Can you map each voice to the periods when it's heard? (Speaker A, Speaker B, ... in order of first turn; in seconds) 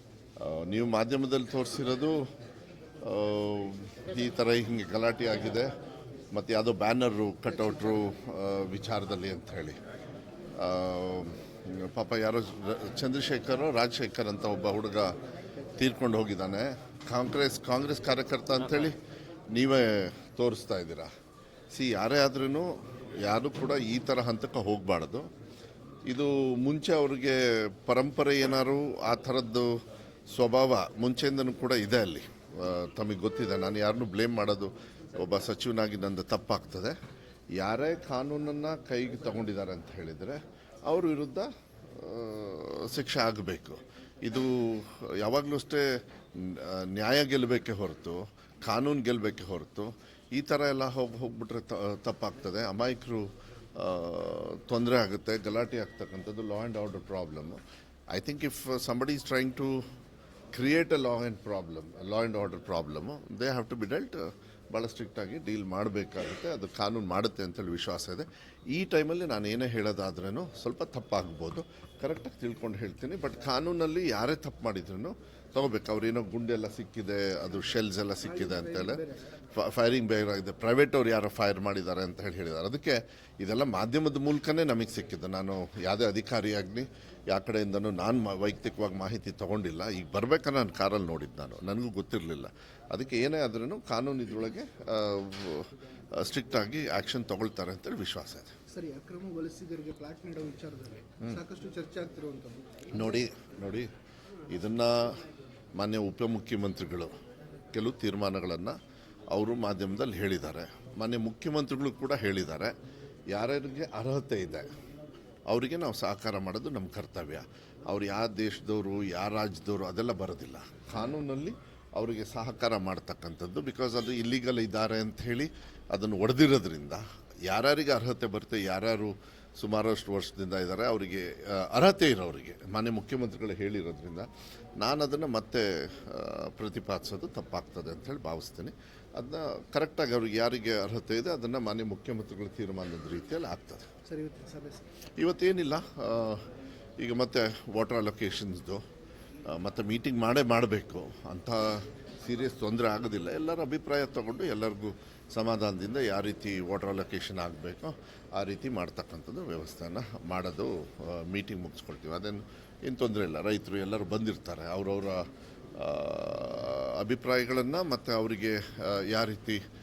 Speaker A: 0.4-2.2, 3.0-5.7, 6.3-9.8, 10.6-15.2, 15.7-19.0, 19.5-21.1, 21.7-22.7, 23.2-25.3, 26.1-29.8, 30.3-37.0, 37.6-57.6, 58.1-59.8, 60.5-79.0, 79.5-98.5, 102.9-103.9, 104.5-105.2, 105.8-107.1, 107.7-108.7, 109.3-112.7, 113.3-114.7, 115.5-134.3, 134.8-143.9, 145.2-146.4, 147.0-148.8, 149.5-169.6
Speaker B: 7.8-8.0, 78.2-79.4, 98.7-103.0, 144.1-144.8